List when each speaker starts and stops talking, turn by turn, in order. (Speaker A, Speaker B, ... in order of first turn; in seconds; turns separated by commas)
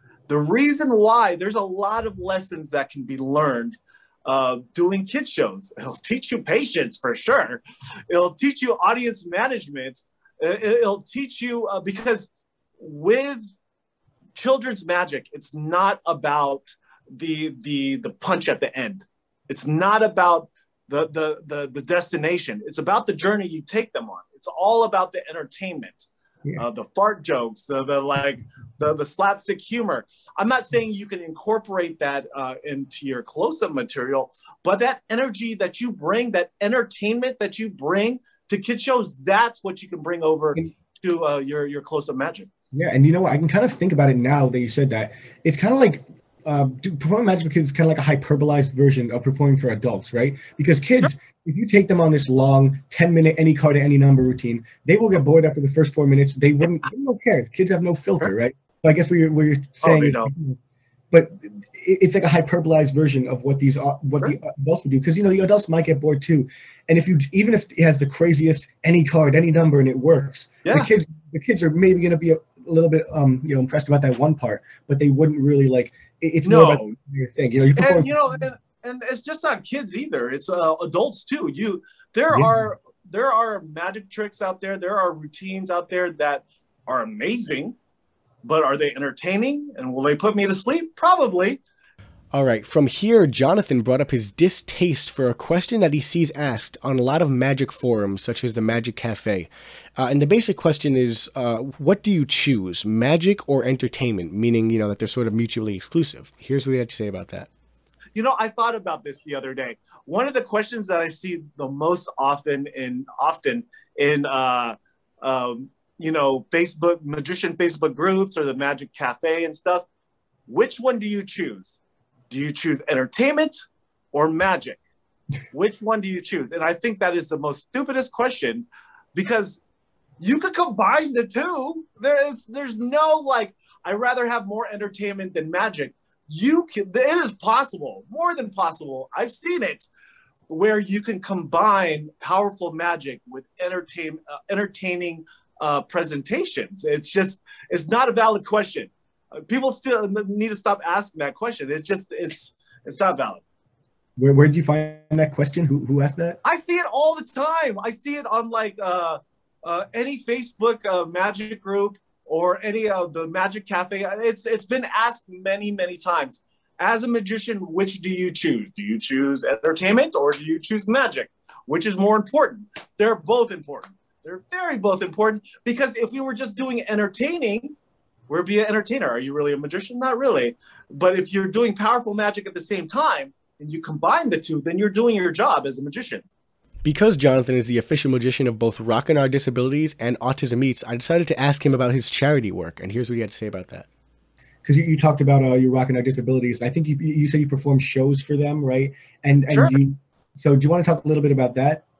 Speaker A: 0.3-13.4, Speaker A: 14.3-42.5, Speaker B: 42.7-60.6, Speaker A: 59.8-60.3, Speaker B: 61.1-78.4, Speaker A: 76.4-76.9, Speaker A: 77.8-87.8, Speaker B: 82.3-82.7, Speaker A: 88.4-91.6, Speaker C: 92.3-107.5, Speaker A: 108.1-119.8, Speaker A: 120.5-123.5, Speaker A: 124.1-124.8, Speaker A: 125.5-129.6, Speaker A: 130.2-139.9, Speaker A: 140.5-153.4, Speaker B: 154.2-156.4, Speaker A: 156.4-177.7, Speaker A: 178.3-186.2, Speaker C: 186.8-193.9, Speaker B: 194.6-201.8